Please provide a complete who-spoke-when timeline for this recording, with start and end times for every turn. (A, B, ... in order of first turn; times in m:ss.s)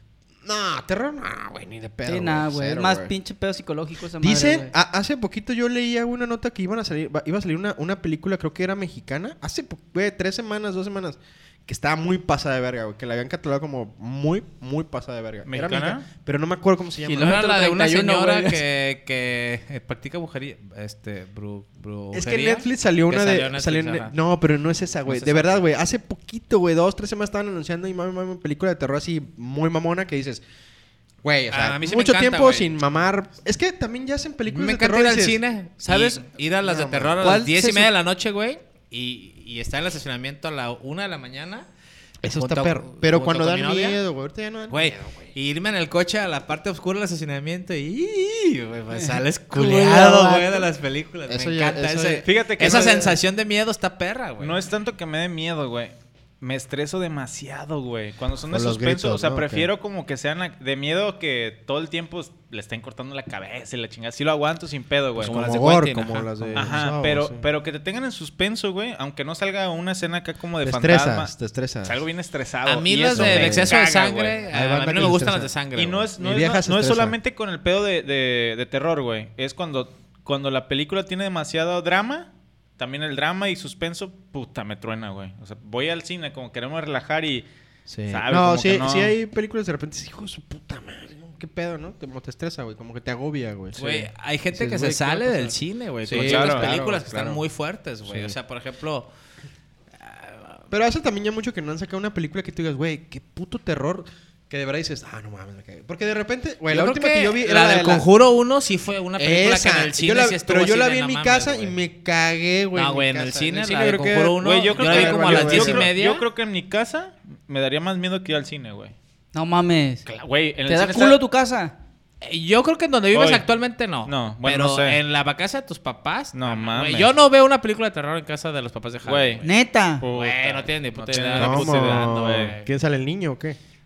0:00.4-0:03.1 A
0:02.0-0:04.7 B
0:04.2-0:17.4 A
0:15.5-0:16.0 C
0:17.0-0:18.6 B
0:17.1-0:24.1 D
0:22.1-0:30.4 A
0:25.1-0:25.6 D
0:31.2-0:37.2 A
0:31.5-0:32.7 D
0:34.5-0:41.6 D
0:37.2-0:37.9 B
0:42.2-0:45.3 A
0:42.2-0:44.0 D
0:44.7-0:54.6 D
0:48.9-0:50.6 B
0:51.3-0:53.2 A
0:52.2-0:53.1 C
0:54.4-1:05.4 C
0:58.5-0:59.7 A
1:05.2-1:06.8 D
1:05.2-1:07.4 A
1:06.5-1:11.3 C
1:10.6-1:12.0 A
1:11.8-1:14.4 C
1:12.6-1:16.1 D
1:13.1-1:13.8 A
1:14.5-1:15.5 A
1:15.8-1:27.5 C
1:16.2-1:17.2 A
1:27.9-1:37.4 A
1:28.1-1:29.1 C
1:33.7-1:39.1 D
1:36.1-1:36.7 C
1:38.1-1:38.4 A
1:40.0-1:40.7 D
1:40.7-1:48.1 A
1:46.7-1:51.7 D
1:49.2-1:55.9 A
1:52.7-1:56.2 D
1:54.4-1:58.9 C
1:59.3-2:00.0 B
2:00.0-2:01.2 C
2:00.6-2:01.7 B
2:02.2-2:09.5 D
2:03.1-2:03.4 C
2:04.0-2:05.0 C
2:06.3-2:07.1 C
2:09.0-2:09.4 C
2:09.4-2:10.0 B
2:10.0-2:12.5 C
2:10.1-2:12.7 D
2:11.3-2:13.6 A